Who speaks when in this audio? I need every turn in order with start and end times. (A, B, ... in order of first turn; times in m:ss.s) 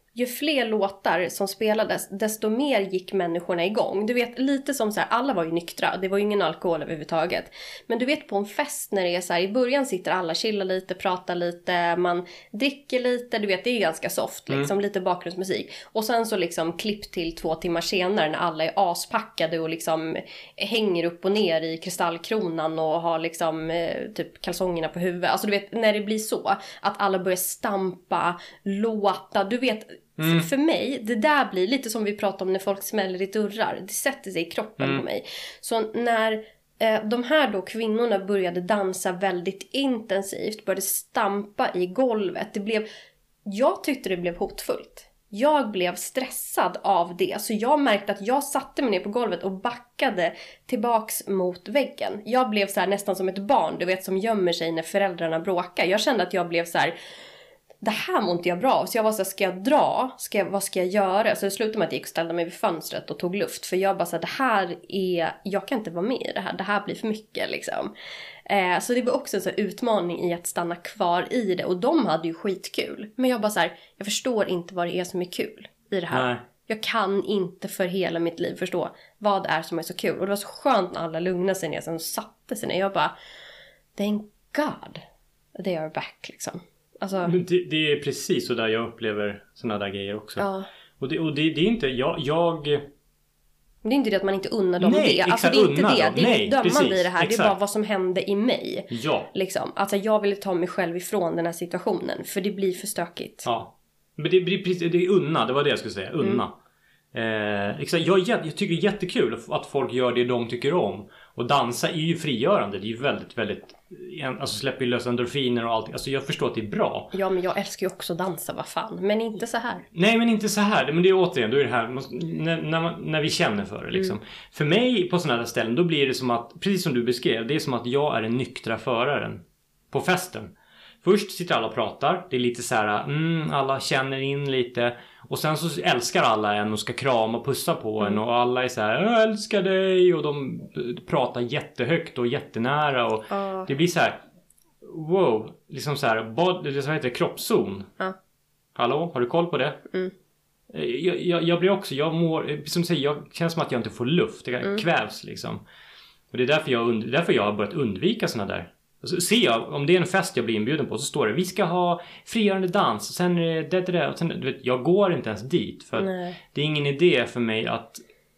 0:00.1-0:42.8 A
0:30.2-0:30.5 B
0:34.8-0:35.0 B
0:43.5-0:57.0 A
0:57.8-1:07.9 A
1:08.4-1:23.1 A
1:16.1-1:16.4 B
1:24.0-1:25.0 A
1:25.6-1:27.4 A
1:27.2-1:30.4 B
1:30.4-1:30.7 A
1:31.0-1:32.9 B
1:33.8-1:43.5 A
1:34.8-1:37.6 B
1:38.9-1:39.3 B
1:43.4-1:46.6 B
1:47.1-1:57.1 B
1:57.1-1:59.9 A
1:59.9-2:24.2 B
2:23.3-2:23.7 A
2:24.8-2:27.9 B
2:28.8-2:29.8 B
2:30.7-2:35.6 B
2:36.3-2:48.0 B
2:46.0-2:46.4 A